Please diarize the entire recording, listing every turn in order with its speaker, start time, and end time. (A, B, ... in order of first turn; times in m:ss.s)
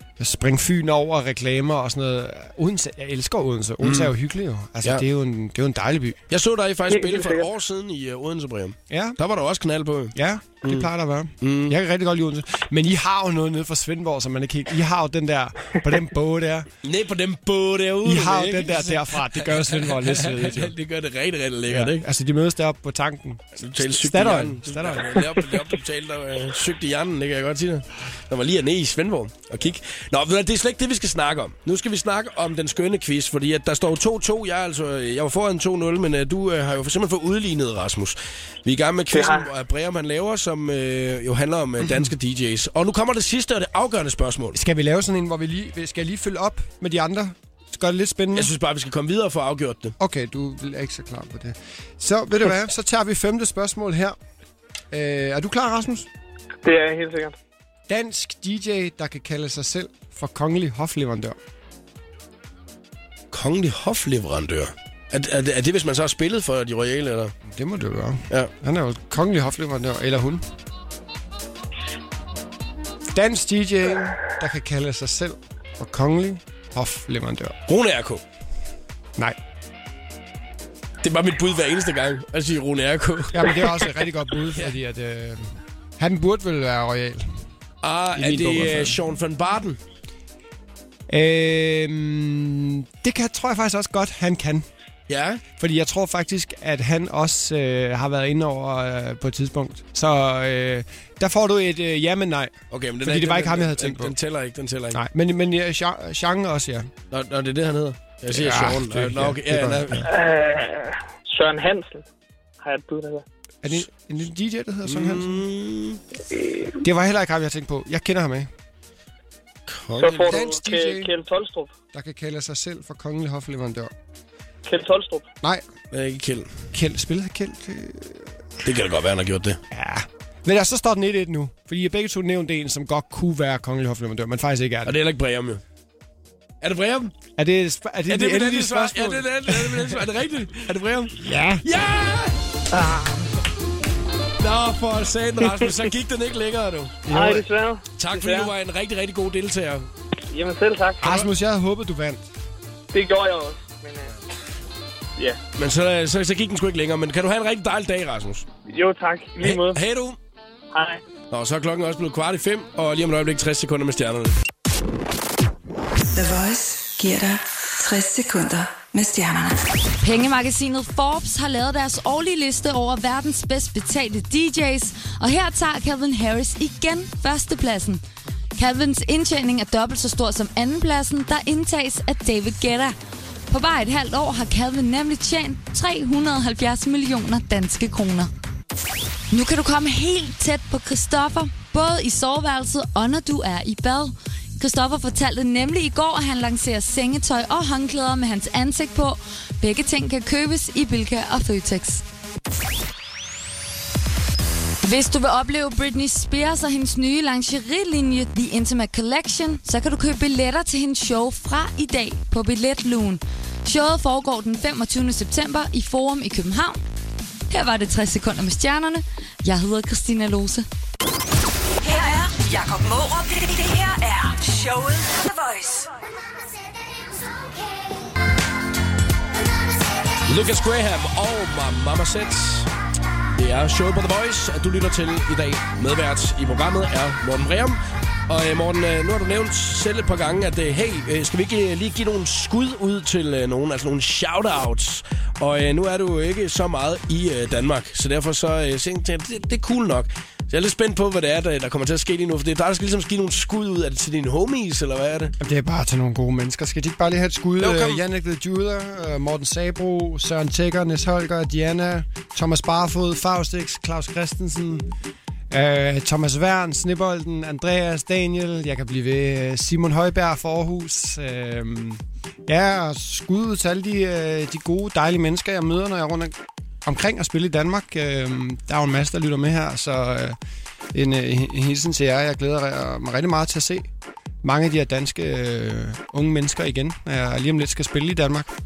0:00.2-0:06.2 A
0:03.8-0:04.1 B
0:06.3-0:10.9 B
0:06.9-0:07.5 C
0:08.9-0:09.2 A
0:10.2-0:16.7 A
0:11.4-0:11.8 B
0:16.8-0:22.0 B
0:18.0-0:20.7 A
0:21.7-0:25.2 A
0:23.6-0:44.6 B
0:39.1-0:39.5 C
0:44.5-0:48.5 A
0:48.3-0:50.0 B
0:50.0-0:54.2 A
0:54.9-0:56.1 A
0:56.6-0:57.4 C
0:57.9-1:01.4 A
1:03.3-1:07.3 B
1:07.5-1:10.4 A
1:13.1-1:17.6 A
1:17.7-1:18.2 B
1:21.0-1:23.9 B
1:23.3-1:27.3 A
1:27.8-1:29.8 B
1:28.2-1:29.0 A
1:31.1-1:34.7 A
1:35.1-1:35.4 B
1:35.6-1:44.1 A
1:42.7-1:45.0 B
1:44.9-1:46.9 A
1:47.1-1:50.1 B
1:48.3-1:50.1 A
1:50.1-1:52.1 C
1:52.6-1:53.2 C
1:53.6-1:55.5 A
1:54.8-1:56.0 B
1:56.3-1:56.8 C
1:56.8-1:58.5 A
1:59.7-2:00.4 B
2:00.0-2:01.7 C
2:00.3-2:01.1 A
2:01.9-2:03.9 A
2:04.6-2:05.3 C
2:05.9-2:06.5 B
2:06.7-2:08.3 A
2:08.6-2:09.6 B
2:09.7-2:15.0 A
2:14.8-2:15.6 B
2:16.6-2:17.2 B
2:17.4-2:20.0 A
2:18.1-2:22.6 B
2:21.2-2:21.6 A
2:22.7-2:23.3 A
2:24.4-2:27.0 B
2:27.1-2:27.4 A
2:27.1-2:28.5 C
2:28.0-2:29.9 B
2:30.3-2:31.2 C
2:31.0-2:32.2 A
2:32.9-2:34.2 C
2:35.6-2:38.5 B
2:38.7-2:39.8 C
2:39.4-2:40.2 B
2:40.7-2:41.0 C
2:41.3-2:44.4 B
2:46.1-2:49.6 D
2:50.0-2:58.0 E
2:58.6-3:03.0 E
3:03.5-3:08.3 E
3:09.3-3:22.0 E
3:24.8-3:36.8 E
3:37.5-3:40.6 E
3:41.8-3:45.9 F
3:50.3-3:52.7 B
3:53.3-4:15.3 B
4:15.4-4:24.9 A
4:17.6-4:18.0 B
4:25.5-4:36.3 A
4:36.8-4:40.4 A
4:40.9-4:43.9 A
4:44.4-4:48.5 A